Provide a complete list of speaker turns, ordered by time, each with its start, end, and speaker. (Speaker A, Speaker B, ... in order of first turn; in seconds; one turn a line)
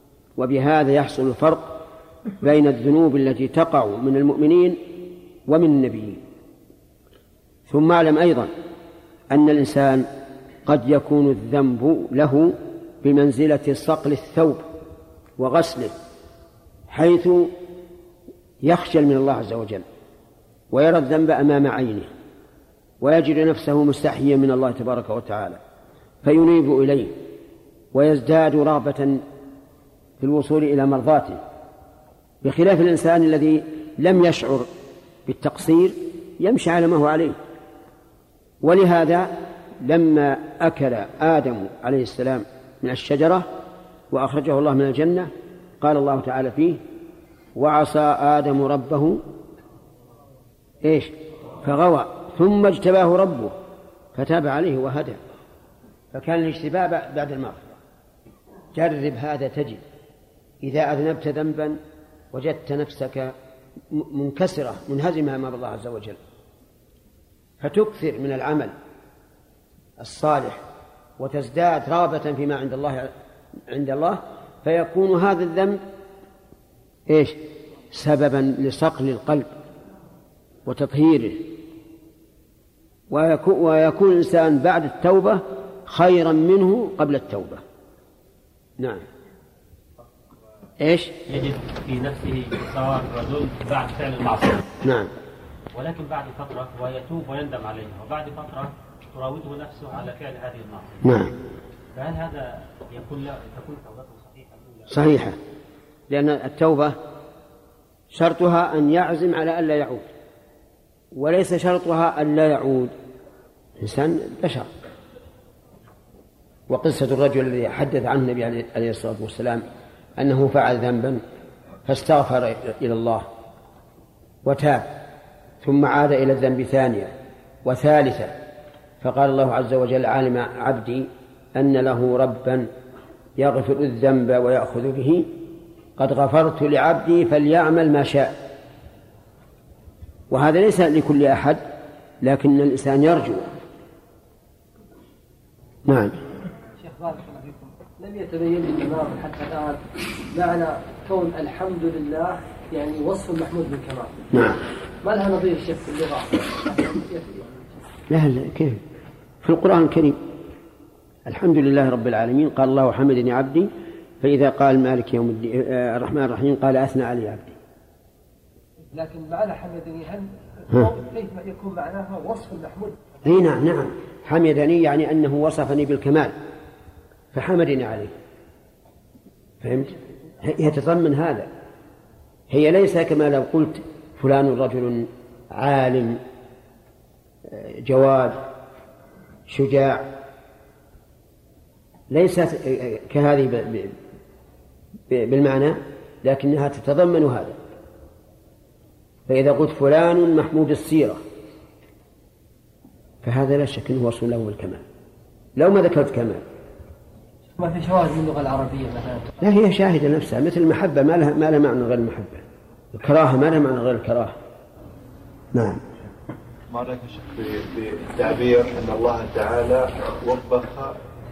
Speaker A: 0.4-1.8
Speaker A: 2.4-6.2
Speaker A: 7.7-8.5
Speaker A: 9.3-10.1
Speaker A: 10.7-14.6
Speaker A: 15.4-15.9
Speaker A: 16.9-17.5
Speaker A: 18.6-19.8
Speaker A: 20.7-22.1
Speaker A: 23.0-25.6
Speaker A: 26.2-27.2
Speaker A: 27.9-29.2
Speaker A: 30.2-31.4
Speaker A: 32.4-34.7
Speaker A: 35.3-37.4
Speaker A: 38.6-43.5
Speaker A: 44.1-46.8
Speaker A: 47.6-49.2
Speaker A: 50.8-53.5
Speaker A: 54.1-55.2
Speaker A: 56.1-57.7
Speaker A: 58.7-59.8
Speaker A: 60.6-61.8
Speaker A: 62.3-63.3
Speaker A: 63.9-66.2
Speaker A: 67.6-68.7
Speaker A: 70.0-70.6
Speaker A: 71.2-73.1
Speaker A: 73.7-75.8
Speaker A: 77.1-77.4
Speaker A: 77.9-79.5
Speaker A: 80.7-81.5
Speaker A: 83.1-87.6
Speaker A: 88.8-89.0
Speaker A: 90.8-91.2
Speaker B: 91.2-94.7
Speaker A: 94.8-95.1
Speaker B: 95.7-101.2
Speaker A: 101.0-101.3
Speaker B: 102.0-104.9
Speaker A: 104.9-105.4
Speaker A: 106.1-107.0
Speaker A: 108.1-110.1
Speaker A: 111.1-112.9
Speaker A: 113.8-114.7
Speaker A: 116.7-121.2
Speaker A: 121.9-123.3
Speaker A: 124.4-125.0
Speaker A: 125.6-127.1
Speaker A: 127.6-128.3
Speaker A: 129.0-132.7
Speaker A: 133.4-135.3
Speaker A: 136.0-138.4
Speaker A: 140.3-141.6
Speaker A: 142.2-143.5
Speaker A: 145.9-146.2
Speaker C: 146.8-154.2
Speaker A: 154.3-154.6
Speaker C: 155.0-157.6
Speaker A: 158.1-158.8
Speaker A: 159.4-160.2
Speaker A: 161.2-163.7
Speaker A: 164.2-167.6
Speaker C: 168.9-173.0
Speaker A: 173.2-176.3
Speaker A: 177.3-178.1
Speaker A: 179.6-181.5
Speaker A: 182.5-186.2
Speaker A: 187.5-188.4
Speaker A: 189.5-190.1
Speaker A: 192.1-193.9
Speaker A: 195.1-197.6
Speaker A: 199.3-201.2
Speaker A: 203.2-204.8
Speaker A: 205.6-206.4
Speaker C: 207.6-209.3
Speaker A: 209.4-214.3
Speaker A: 215.5-215.8
Speaker D: 216.7-221.0